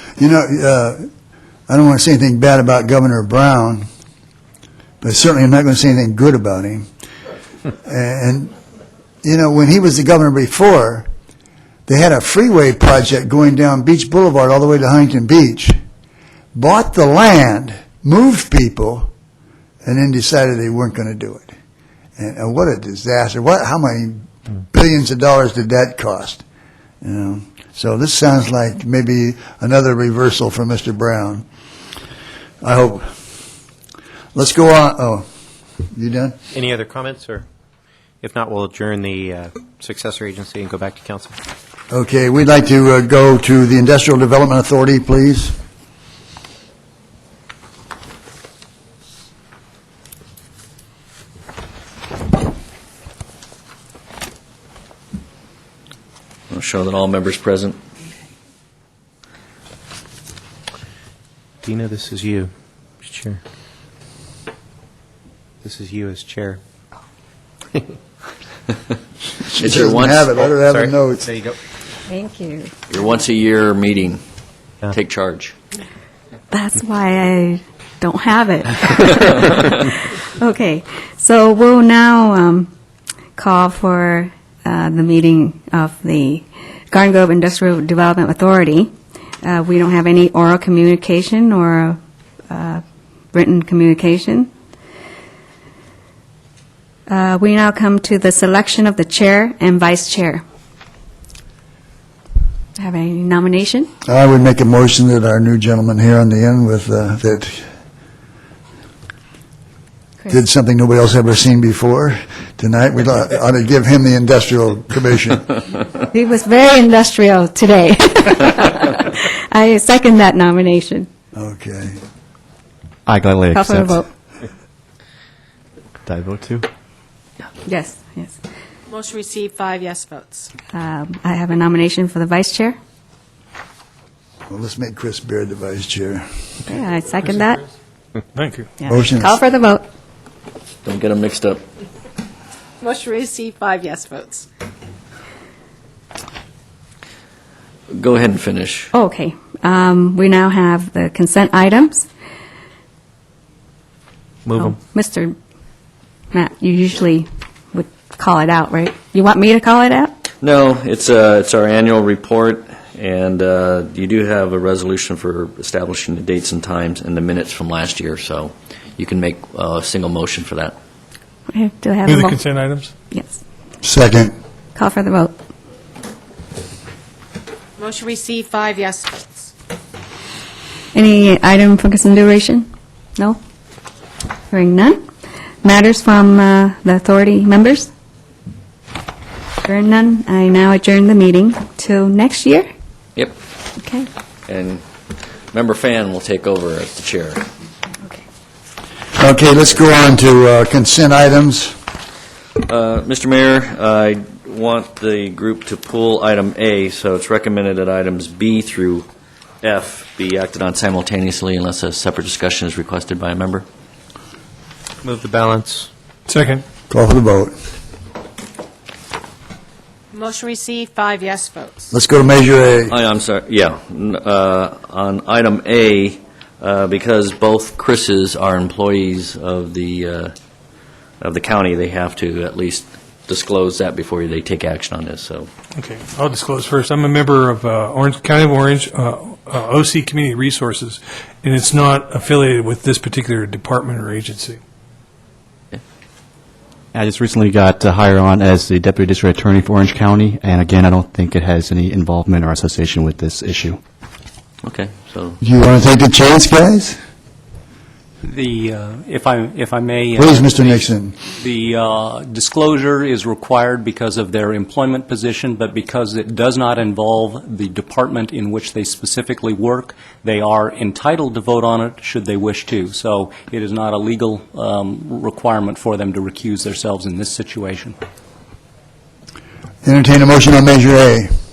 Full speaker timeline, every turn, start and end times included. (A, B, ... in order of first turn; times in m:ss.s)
0:00.2-0:01.0 A
0:01.7-0:03.9 A
0:05.0-0:06.9 A
0:07.8-0:08.5 A
0:09.2-0:11.1 A
0:11.9-0:15.8 A
0:16.5-0:19.1 A
0:19.8-0:21.5 A
0:22.2-0:26.4 A
0:27.0-0:31.4 A
0:32.6-0:33.1 A
0:34.3-0:35.2 A
0:36.0-0:36.3 A
0:36.6-0:37.4 B
0:38.2-0:41.4 B
0:41.9-0:45.6 A
0:56.5-0:57.8 C
1:01.6-1:02.5 B
1:03.0-1:03.4 B
1:05.6-1:06.6 B
1:09.5-1:11.3 A
1:09.6-1:10.5 C
1:10.7-1:11.5 B
1:12.1-1:12.7 D
1:12.9-1:14.2 C
1:14.9-1:15.5 C
1:16.5-1:22.7 D
1:23.4-1:28.9 D
1:29.4-1:32.0 D
1:32.5-1:32.8 D
1:33.3-1:34.5 D
1:37.1-1:40.4 D
1:42.8-1:43.9 D
1:44.0-1:47.6 A
1:50.3-1:55.6 A
1:56.1-2:01.1 D
2:01.3-2:02.0 A
2:03.1-2:03.5 E
2:03.5-2:04.1 D
2:06.1-2:06.6 E
2:07.7-2:08.4 D
2:08.9-2:10.5 F
2:10.7-2:12.8 D
2:14.5-2:16.2 A
2:16.7-2:17.7 D
2:18.3-2:18.7 G
2:18.8-2:19.8 D
2:18.9-2:19.4 A
2:20.8-2:21.6 C
2:22.8-2:24.5 F
2:27.9-2:28.9 C
2:28.9-2:32.1 D
2:34.5-2:34.7 B
2:34.6-2:35.3 D
2:36.3-2:40.1 D
2:40.4-2:50.8 C
2:51.5-2:52.4 D
2:52.1-2:52.9 G
2:53.1-2:53.4 D
2:53.8-2:54.3 A
2:54.8-2:55.3 D
2:57.8-2:59.5 F
3:00.9-3:03.4 D
3:04.5-3:05.0 D
3:05.6-3:07.9 D
3:09.6-3:12.7 D
3:13.8-3:14.1 D
3:14.5-3:14.8 C
3:15.5-3:17.5 C
3:19.2-3:21.8 A
3:22.6-3:29.1 C
3:29.6-3:33.7 C
3:35.1-3:35.9 B
3:36.3-3:36.6 G
3:36.9-3:37.5 A
3:40.1-3:41.9 F
3:41.9-3:42.9 A
3:42.9-3:50.3 C
3:51.2-3:55.5 C
3:55.8-4:04.6 G
4:07.0-4:13.7 E
4:14.6-4:15.4 C
4:15.4-4:17.0 A
4:18.2-4:38.0 H
4:20.2-4:21.1 A
4:39.8-4:41.3 A